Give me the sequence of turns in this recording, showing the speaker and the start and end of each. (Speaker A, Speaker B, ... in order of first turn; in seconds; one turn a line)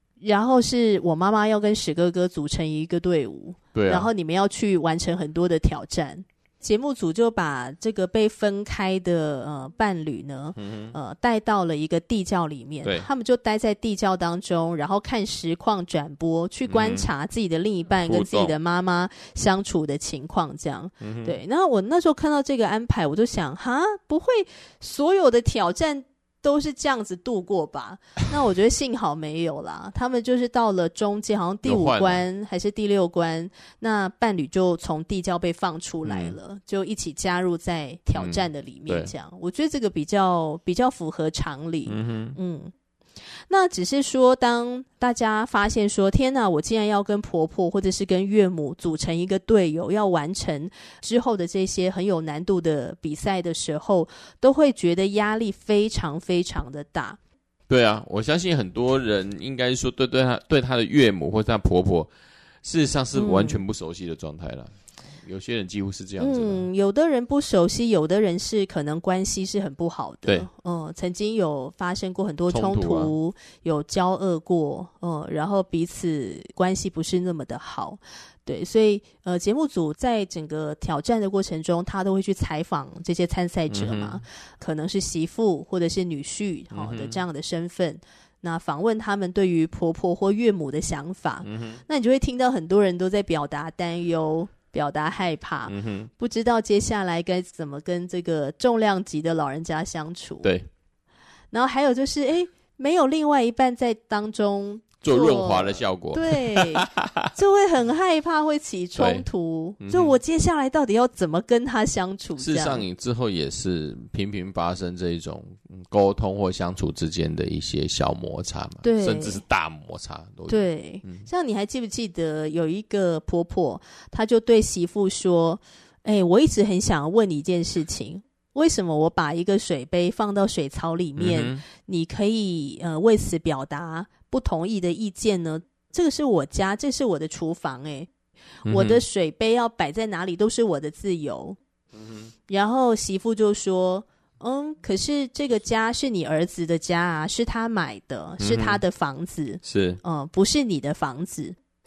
Speaker A: 0.2-42.7
Speaker B: 3.7-4.1
Speaker B: 10.6-10.9
Speaker B: 16.7-17.1
Speaker B: 18.1-18.5
Speaker B: 21.0-21.4
Speaker B: 31.6-32.2
Speaker B: 36.0-36.4
Speaker B: 38.1-39.1
Speaker B: 41.9-42.4
Speaker A: 43.5-57.2
Speaker B: 57.7-62.1
Speaker B: 62.6-66.6
Speaker A: 63.1-63.6
Speaker A: 66.2-100.5
Speaker B: 72.5-73.1
Speaker B: 83.7-84.2
Speaker B: 86.7-87.2
Speaker B: 91.4-91.8
Speaker B: 95.7-96.1
Speaker B: 100.4-100.7
Speaker A: 101.5-112.8
Speaker B: 105.0-107.3
Speaker B: 109.0-109.2
Speaker B: 109.8-110.2
Speaker B: 112.4-121.3
Speaker A: 118.8-119.4
Speaker A: 120.5-138.1
Speaker B: 131.2-131.6
Speaker B: 138.7-139.0
Speaker A: 138.7-141.6
Speaker B: 141.9-142.3
Speaker A: 142.5-151.6
Speaker B: 148.4-148.8
Speaker B: 149.6-150.0